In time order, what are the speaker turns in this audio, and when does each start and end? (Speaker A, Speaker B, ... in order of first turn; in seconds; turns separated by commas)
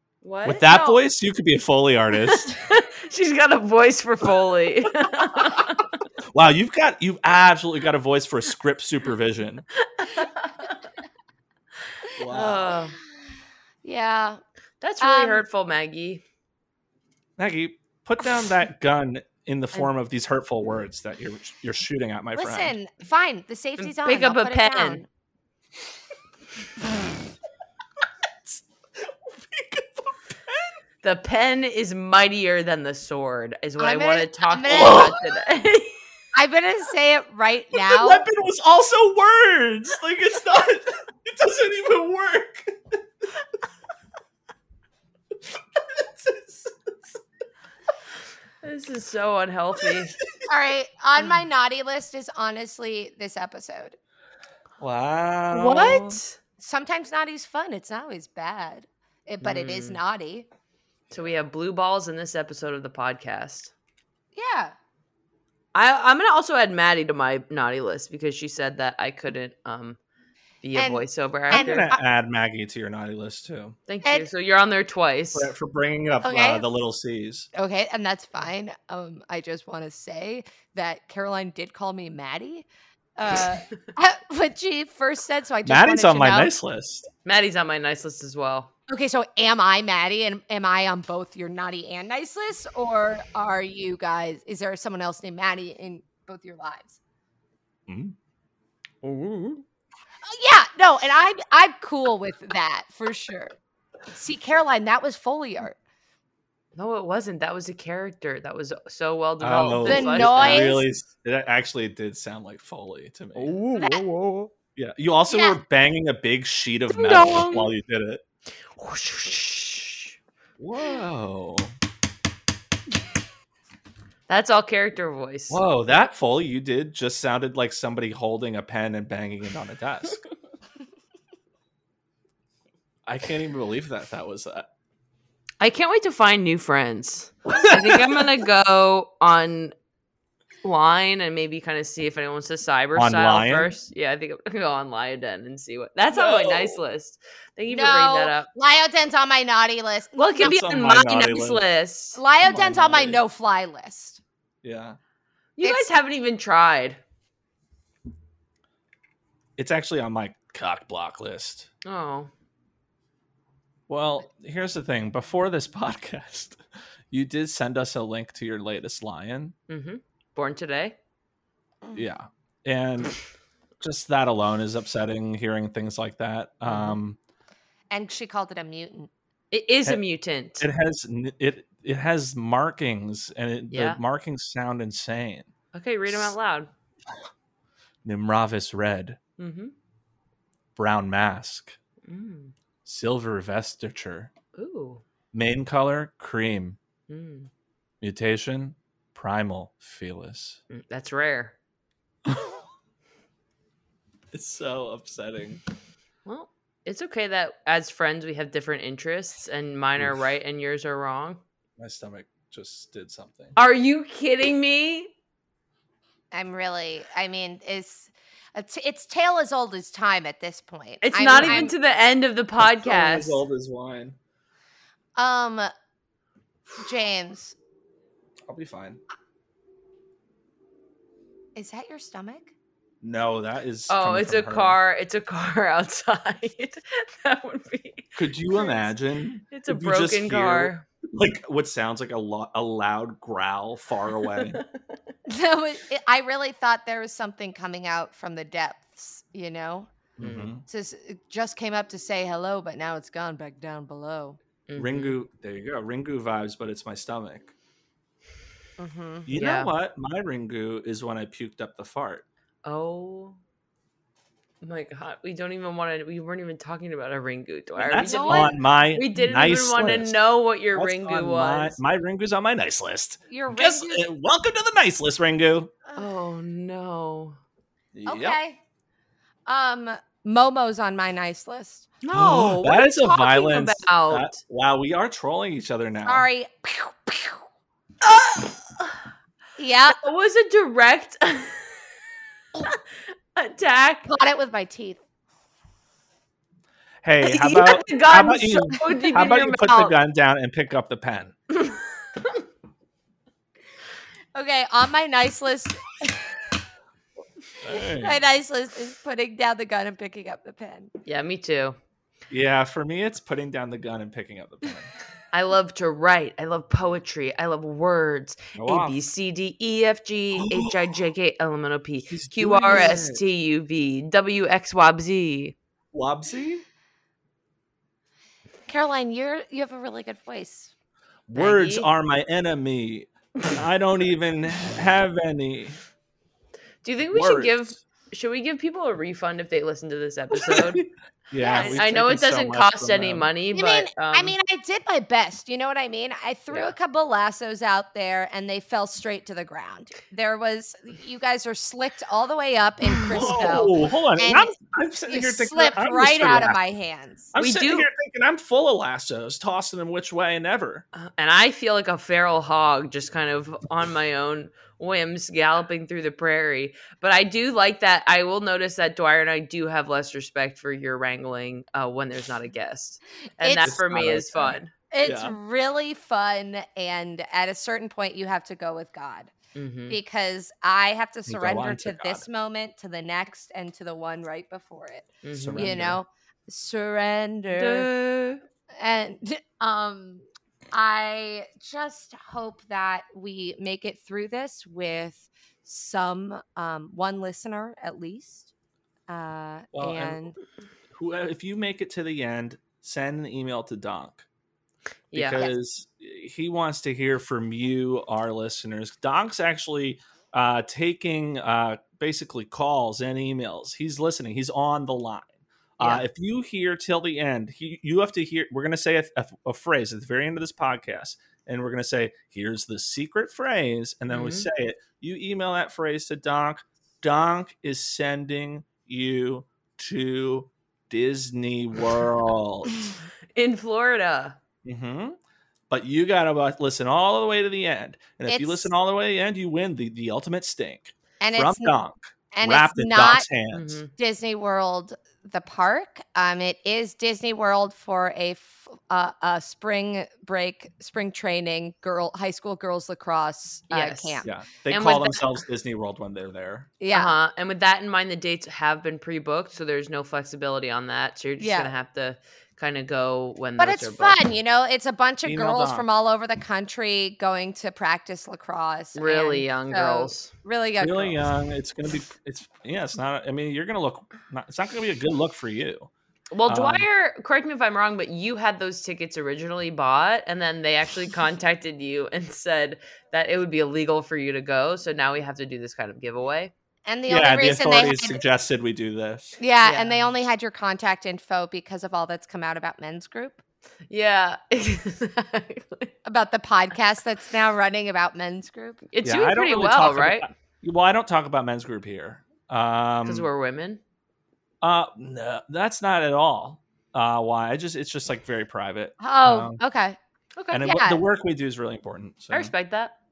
Speaker A: 0.2-0.8, Speaker B: 0.4-2.5, Speaker C: 0.6-1.0, Speaker A: 2.2-5.9, Speaker B: 6.3-9.6, Speaker A: 10.0-10.8, Speaker B: 12.2-12.7, Speaker A: 12.3-12.9, Speaker C: 13.8-14.4, Speaker A: 14.8-16.2, Speaker C: 15.0-15.4, Speaker B: 17.4-22.7, Speaker C: 22.4-25.1, Speaker A: 23.8-25.0, Speaker B: 28.4-30.8, Speaker A: 31.0-36.0, Speaker C: 33.8-35.2, Speaker B: 34.7-35.2, Speaker C: 36.3-38.2, Speaker B: 37.7-43.0, Speaker B: 45.7-47.2, Speaker A: 48.6-50.1, Speaker C: 50.5-54.0, Speaker B: 54.8-56.2, Speaker A: 55.5-56.4, Speaker C: 56.6-60.5, Speaker A: 59.4-60.0, Speaker A: 61.1-63.7, Speaker C: 64.3-64.7, Speaker A: 65.7-70.0, Speaker A: 70.6-71.9, Speaker C: 70.7-72.0, Speaker B: 71.5-73.8, Speaker A: 73.9-75.5, Speaker C: 74.0-74.3, Speaker B: 75.3-77.5, Speaker C: 76.2-76.6, Speaker C: 77.5-86.5, Speaker B: 85.6-87.1, Speaker A: 87.2-88.7, Speaker C: 88.9-97.0, Speaker B: 97.9-98.1, Speaker A: 99.0-99.6, Speaker C: 100.2-103.5, Speaker C: 104.1-105.8, Speaker A: 106.7-110.7, Speaker B: 109.4-113.5, Speaker C: 109.8-110.8, Speaker A: 113.3-114.5, Speaker C: 113.8-114.0, Speaker B: 114.8-118.2, Speaker C: 115.3-115.6, Speaker A: 116.9-117.7, Speaker A: 118.7-120.2, Speaker B: 120.6-121.7, Speaker A: 124.3-125.6, Speaker B: 125.5-130.2, Speaker B: 133.1-134.7, Speaker A: 135.6-139.7, Speaker B: 137.5-138.2, Speaker A: 140.6-148.5, Speaker B: 142.9-143.7, Speaker B: 146.1-146.8, Speaker C: 147.7-150.6, Speaker A: 150.1-152.2, Speaker B: 150.4-151.6, Speaker C: 152.2-154.2, Speaker B: 152.4-153.2, Speaker B: 154.6-155.0, Speaker A: 155.6-157.0, Speaker C: 155.6-155.9, Speaker B: 159.6-161.7, Speaker A: 161.8-162.3, Speaker B: 163.9-169.5, Speaker A: 169.7-170.9, Speaker B: 171.9-173.1, Speaker B: 173.8-177.2, Speaker A: 176.7-177.0, Speaker C: 177.9-179.1, Speaker A: 179.5-180.7, Speaker B: 180.6-185.5, Speaker A: 183.7-184.0, Speaker A: 185.7-186.7, Speaker B: 188.0-189.2, Speaker A: 189.4-189.7, Speaker B: 190.8-191.8, Speaker A: 192.0-192.5, Speaker B: 192.8-194.3, Speaker A: 194.5-195.0, Speaker B: 195.3-196.8, Speaker A: 197.1-197.5, Speaker B: 198.0-200.6, Speaker A: 200.7-201.5, Speaker B: 204.3-205.6, Speaker A: 206.2-211.4, Speaker B: 211.8-213.5, Speaker A: 213.5-215.1, Speaker C: 216.3-221.7, Speaker A: 221.0-223.4, Speaker B: 221.3-221.7, Speaker B: 222.6-224.2, Speaker C: 225.2-225.7, Speaker C: 226.8-227.5, Speaker B: 228.5-229.0, Speaker C: 231.5-232.5, Speaker B: 233.0-234.8, Speaker A: 233.9-238.7, Speaker B: 238.2-244.6, Speaker A: 239.5-240.8, Speaker A: 244.3-244.8, Speaker C: 245.3-249.9, Speaker B: 250.2-250.6, Speaker A: 250.2-250.5, Speaker C: 250.7-254.4, Speaker A: 254.7-255.2, Speaker B: 254.8-257.5, Speaker C: 258.8-259.3, Speaker B: 259.2-262.2, Speaker A: 259.4-259.7, Speaker A: 262.6-263.4, Speaker A: 264.6-271.8, Speaker B: 267.8-270.2, Speaker C: 267.9-268.6, Speaker B: 270.7-275.7, Speaker C: 273.3-274.1, Speaker A: 275.9-277.4, Speaker B: 277.9-278.4, Speaker C: 278.1-278.6, Speaker C: 279.5-281.9, Speaker A: 282.0-284.4, Speaker B: 282.1-286.3, Speaker C: 286.1-287.4, Speaker A: 288.0-288.9, Speaker C: 289.6-290.0, Speaker A: 289.9-291.8, Speaker A: 292.5-292.8, Speaker A: 293.3-294.1, Speaker C: 294.1-295.0, Speaker B: 297.0-301.3, Speaker A: 297.2-299.9, Speaker A: 301.6-302.4, Speaker C: 304.3-306.4, Speaker B: 307.6-308.2, Speaker C: 307.7-310.9, Speaker A: 311.0-311.8, Speaker B: 312.3-314.9, Speaker A: 315.3-325.6, Speaker B: 318.5-319.0, Speaker B: 320.4-320.9, Speaker B: 322.1-323.2, Speaker B: 325.9-326.6, Speaker C: 328.7-330.7, Speaker B: 331.3-335.8, Speaker A: 331.3-331.9, Speaker A: 336.8-340.8, Speaker B: 337.1-337.7, Speaker B: 340.3-343.3, Speaker C: 341.4-341.8, Speaker A: 341.5-344.4, Speaker C: 343.5-354.6, Speaker A: 352.9-353.6, Speaker B: 353.1-356.6, Speaker C: 355.1-357.3, Speaker B: 357.3-360.8, Speaker A: 357.4-357.9, Speaker A: 360.9-374.7, Speaker C: 373.4-374.1, Speaker B: 373.6-375.4, Speaker C: 374.9-379.3, Speaker A: 379.5-380.0, Speaker C: 379.9-387.9, Speaker B: 381.3-382.2, Speaker A: 385.2-385.8, Speaker B: 385.3-386.0, Speaker A: 387.5-388.4, Speaker C: 388.8-398.5, Speaker C: 399.1-400.4, Speaker B: 399.7-400.2, Speaker B: 400.9-404.2, Speaker A: 405.1-405.5, Speaker B: 405.1-432.8, Speaker A: 415.8-416.0, Speaker A: 424.1-424.5, Speaker A: 433.3-434.4, Speaker B: 434.6-435.2, Speaker B: 435.7-443.8, Speaker C: 438.3-438.7, Speaker C: 441.2-441.7, Speaker C: 442.3-443.2, Speaker A: 443.5-443.9, Speaker C: 444.0-454.3, Speaker A: 453.7-455.2, Speaker B: 454.2-456.7, Speaker C: 456.8-457.2, Speaker A: 456.9-464.2, Speaker C: 461.4-461.7, Speaker C: 463.6-471.2, Speaker B: 465.2-465.9, Speaker A: 468.9-470.3, Speaker B: 470.8-475.9, Speaker A: 476.3-486.5, Speaker B: 476.5-476.9, Speaker C: 486.9-488.2, Speaker B: 487.1-489.4, Speaker C: 489.4-493.4, Speaker A: 489.6-490.1, Speaker A: 493.9-495.9, Speaker C: 496.0-498.8, Speaker A: 498.9-500.3, Speaker B: 499.0-503.3, Speaker A: 503.0-503.8, Speaker B: 504.6-509.6, Speaker C: 509.0-510.0, Speaker A: 510.4-510.6, Speaker B: 510.5-512.5, Speaker C: 510.6-511.0, Speaker A: 512.3-512.9